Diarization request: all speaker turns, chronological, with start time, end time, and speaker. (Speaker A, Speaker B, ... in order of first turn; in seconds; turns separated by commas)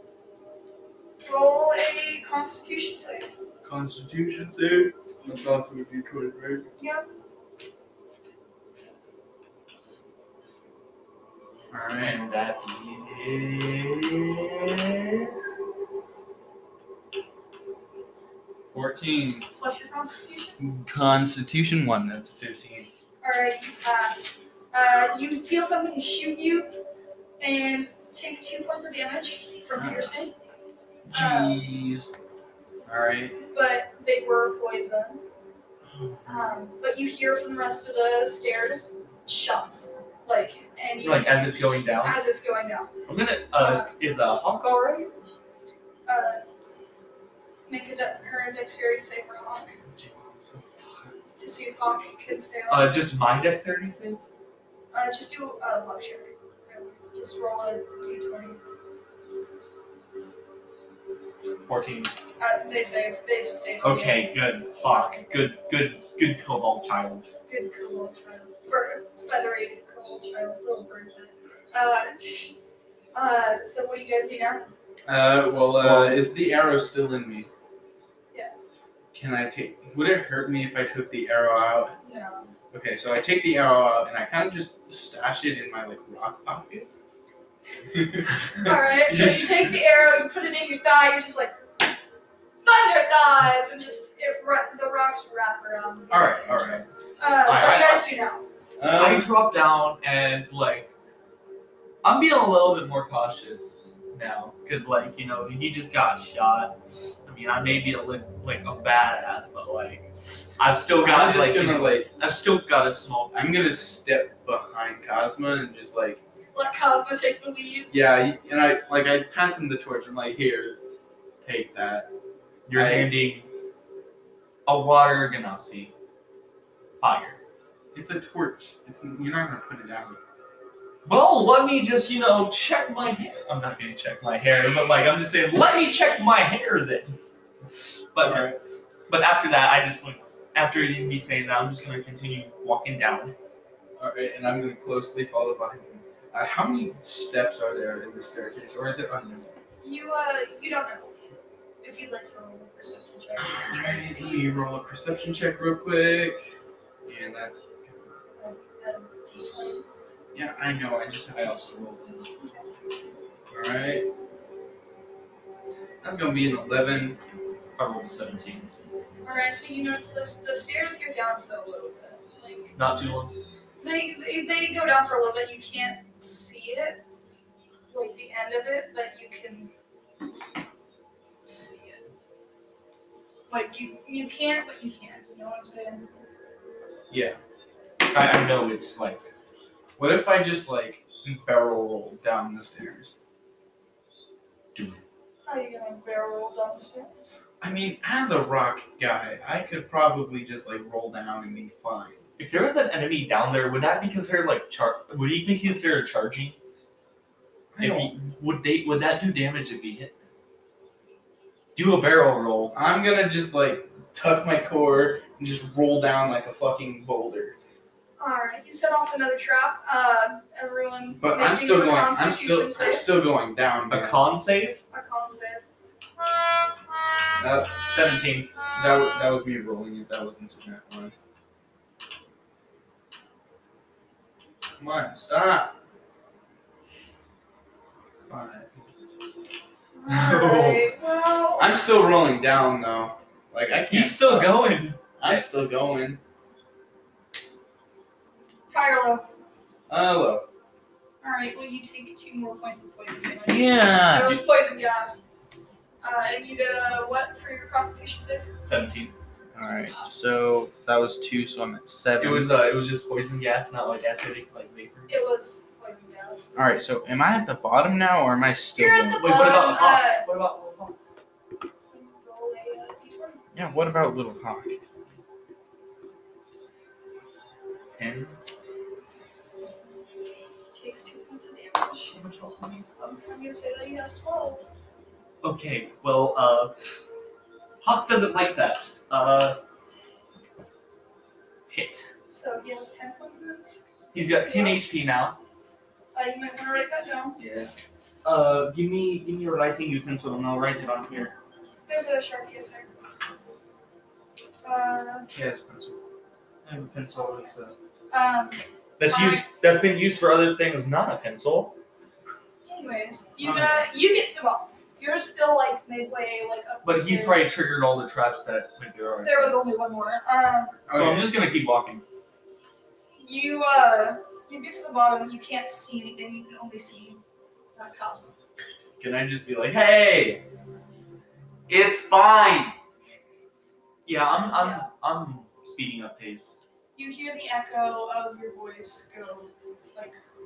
Speaker A: 1.2-3.3, Speaker B: 3.6-6.7, Speaker A: 6.8-7.0, Speaker B: 11.7-12.2, Speaker C: 12.0-15.3, Speaker B: 18.7-19.5, Speaker A: 19.6-20.6, Speaker B: 20.6-22.9, Speaker A: 23.2-26.8, Speaker A: 27.4-30.3, Speaker B: 29.7-30.1, Speaker B: 31.1-32.1, Speaker A: 31.1-31.7, Speaker B: 32.8-33.4, Speaker A: 33.4-35.2, Speaker B: 35.9-36.4, Speaker A: 36.2-42.9, Speaker C: 41.0-42.2, Speaker C: 43.1-45.1, Speaker A: 43.5-43.9, Speaker A: 46.0-46.4, Speaker A: 47.7-49.8, Speaker B: 49.9-51.1, Speaker A: 51.4-52.9, Speaker C: 52.7-54.2, Speaker A: 54.9-58.6, Speaker C: 61.6-62.1, Speaker A: 62.4-64.3, Speaker C: 63.8-67.3, Speaker A: 64.8-65.3, Speaker A: 67.5-72.5, Speaker A: 73.1-74.7, Speaker B: 75.0-77.5, Speaker C: 75.7-76.2, Speaker A: 78.3-78.7, Speaker B: 79.1-82.0, Speaker A: 82.0-82.5, Speaker B: 82.7-87.0, Speaker B: 87.9-89.7, Speaker A: 88.6-91.6, Speaker A: 92.6-98.4, Speaker B: 96.1-96.8, Speaker C: 97.4-98.0, Speaker B: 98.8-99.3, Speaker C: 98.9-100.9, Speaker C: 102.0-110.1, Speaker C: 110.6-113.3, Speaker B: 111.0-112.5, Speaker B: 113.3-116.2, Speaker A: 116.5-117.9, Speaker B: 117.9-120.8, Speaker B: 121.4-122.1, Speaker C: 122.7-123.5, Speaker B: 122.7-123.2, Speaker C: 124.7-125.9, Speaker C: 127.0-127.4, Speaker B: 127.9-130.2, Speaker C: 131.0-137.2, Speaker C: 138.1-138.5, Speaker B: 138.2-138.6, Speaker C: 139.1-143.3, Speaker B: 144.0-149.6, Speaker A: 149.8-151.2, Speaker A: 151.8-154.5, Speaker B: 153.4-156.5, Speaker B: 157.1-158.1, Speaker A: 158.3-159.8, Speaker B: 160.3-161.7, Speaker C: 161.3-162.3, Speaker A: 162.4-162.7, Speaker B: 163.5-164.1, Speaker B: 166.0-167.2, Speaker C: 167.8-168.7, Speaker A: 169.2-173.1, Speaker C: 172.8-173.3, Speaker A: 173.8-177.0, Speaker A: 177.9-179.7, Speaker A: 181.4-182.0, Speaker A: 183.5-186.1, Speaker B: 187.1-187.4, Speaker C: 188.1-189.2, Speaker B: 190.0-193.2, Speaker A: 195.4-197.1, Speaker B: 197.6-202.2, Speaker C: 202.4-206.6, Speaker B: 207.7-208.1, Speaker C: 207.8-210.1, Speaker C: 211.8-212.7, Speaker B: 212.7-217.6, Speaker A: 218.2-223.1, Speaker B: 221.2-224.2, Speaker C: 223.9-224.8, Speaker A: 224.9-225.6, Speaker B: 227.4-227.9, Speaker C: 227.8-228.6, Speaker B: 228.7-231.1, Speaker B: 234.8-235.8, Speaker B: 238.3-238.7, Speaker A: 239.9-241.7, Speaker C: 240.1-240.8, Speaker B: 241.6-244.6, Speaker C: 243.9-245.3, Speaker B: 245.2-246.2, Speaker A: 248.7-249.3, Speaker B: 249.9-250.5, Speaker A: 251.2-255.2, Speaker B: 253.4-254.4, Speaker A: 256.0-258.5, Speaker C: 258.6-259.1, Speaker B: 259.5-262.5, Speaker A: 259.9-260.2, Speaker C: 262.2-265.2, Speaker A: 265.1-266.5, Speaker B: 266.5-269.5, Speaker A: 268.8-270.2, Speaker C: 269.2-270.9, Speaker A: 271.9-273.4, Speaker B: 273.5-274.8, Speaker C: 277.9-278.3, Speaker A: 280.7-282.1, Speaker C: 282.1-282.9, Speaker A: 283.0-284.6, Speaker C: 285.4-286.7, Speaker C: 287.8-289.6, Speaker C: 291.7-292.0, Speaker A: 292.3-294.8, Speaker C: 294.1-295.4, Speaker A: 296.1-297.4, Speaker C: 297.4-297.7, Speaker C: 298.2-301.3, Speaker A: 301.9-302.9, Speaker A: 304.6-305.3, Speaker B: 305.3-306.0, Speaker C: 306.6-307.7, Speaker A: 307.1-307.5, Speaker A: 308.1-309.4, Speaker C: 309.0-311.7, Speaker A: 312.6-317.5, Speaker B: 313.4-313.8, Speaker C: 316.8-319.6, Speaker A: 319.2-320.8, Speaker B: 320.9-321.3, Speaker C: 320.9-322.0, Speaker A: 323.2-327.2, Speaker A: 327.7-328.3, Speaker B: 329.0-330.4, Speaker B: 331.7-332.8, Speaker C: 334.1-336.6, Speaker A: 334.4-334.9, Speaker A: 336.9-340.2